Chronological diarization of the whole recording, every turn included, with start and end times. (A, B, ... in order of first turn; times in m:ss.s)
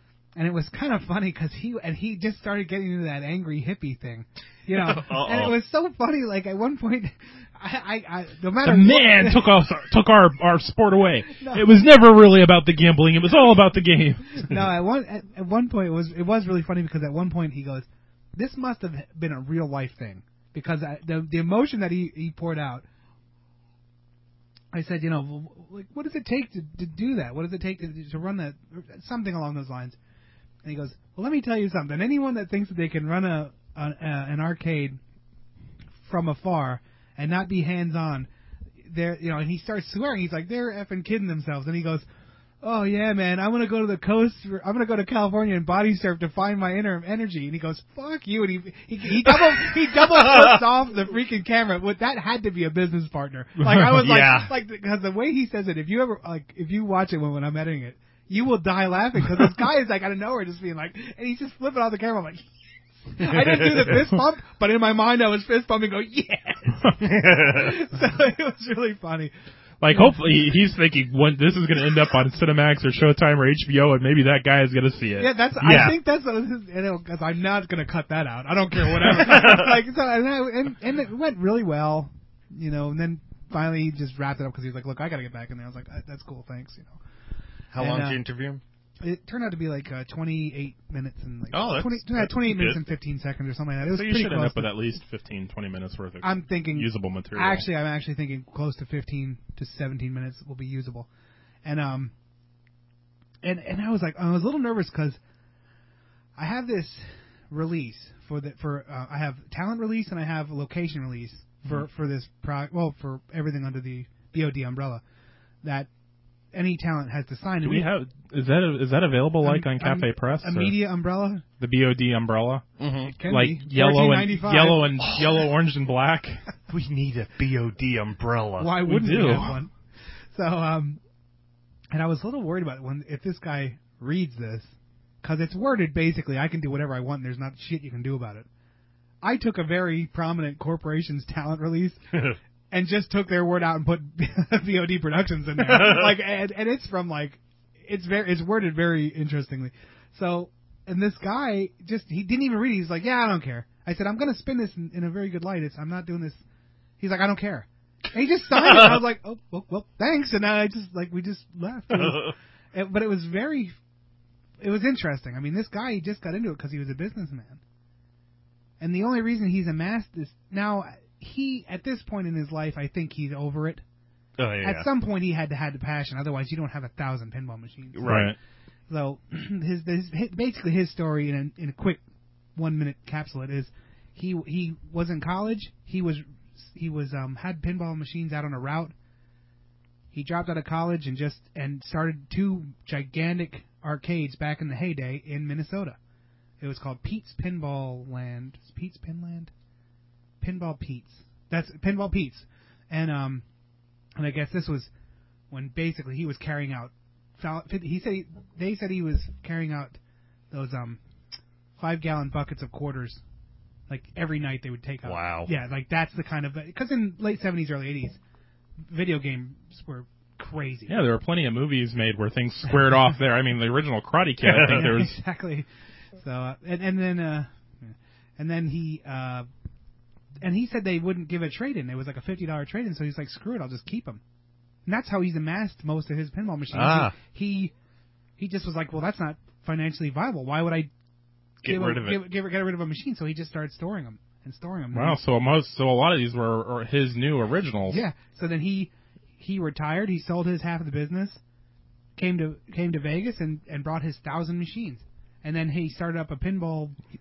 0:00.4-0:09.5 A
0:04.7-0:05.6 B
0:08.6-0:14.6 C
0:11.3-0:11.7 A
0:14.4-0:22.8 A
0:24.7-0:30.0 A
0:30.6-0:35.0 A
0:36.0-0:38.3 A
0:38.8-0:42.0 A
0:42.6-1:02.4 A
0:49.4-0:50.5 B
0:53.7-0:54.5 B
1:03.1-1:09.3 A
1:03.2-1:04.0 B
1:07.0-1:07.8 B
1:09.8-1:15.4 C
1:09.9-1:10.2 A
1:15.2-1:27.0 A
1:15.6-1:16.0 B
1:19.1-1:19.6 B
1:27.7-1:28.6 B
1:27.8-1:28.2 A
1:29.0-1:34.7 A
1:31.5-1:32.8 B
1:33.8-1:37.7 C
1:36.2-1:41.1 A
1:41.6-1:42.1 A
1:43.4-1:45.2 A
1:46.4-1:55.0 A
1:55.6-1:55.9 A
1:56.5-1:57.9 A
1:57.6-2:00.8 C
1:59.4-2:01.4 A
2:01.6-2:02.6 C
2:02.8-2:03.1 B
2:03.1-2:04.9 A
2:03.3-2:06.4 C
2:05.0-2:05.4 B
2:06.7-2:08.8 B
2:08.6-2:09.7 A
2:08.8-2:09.6 C
2:10.3-2:11.0 A
2:11.9-2:18.5 A
2:19.2-2:22.0 A
2:22.7-2:36.4 A
2:25.6-2:26.2 B
2:37.0-2:43.7 A
2:38.6-2:39.0 B
2:41.9-2:42.3 B
2:44.6-2:47.6 A
2:48.8-2:53.8 A
2:54.4-2:54.9 B
2:54.6-2:58.2 A
2:57.9-2:58.3 B
2:58.0-2:58.4 C
2:58.9-3:02.0 A
3:02.6-3:08.9 A
3:10.1-3:16.0 A
3:16.6-3:19.5 A
3:20.4-3:23.4 A
3:24.2-3:24.9 A
3:25.5-3:30.0 A
3:30.5-3:31.0 A
3:31.8-3:33.2 A
3:33.9-3:38.2 A
3:35.0-3:35.5 B
3:38.9-3:40.9 A
3:40.9-3:45.2 C
3:44.4-3:44.8 B
3:44.6-3:49.5 A
3:50.4-3:54.2 A
3:54.8-3:57.7 A
3:56.7-3:57.2 B
3:58.4-4:00.9 A
4:01.6-4:02.2 B
4:01.6-4:05.2 A
4:04.9-4:08.0 C
4:07.9-4:11.4 A
4:12.2-4:17.0 A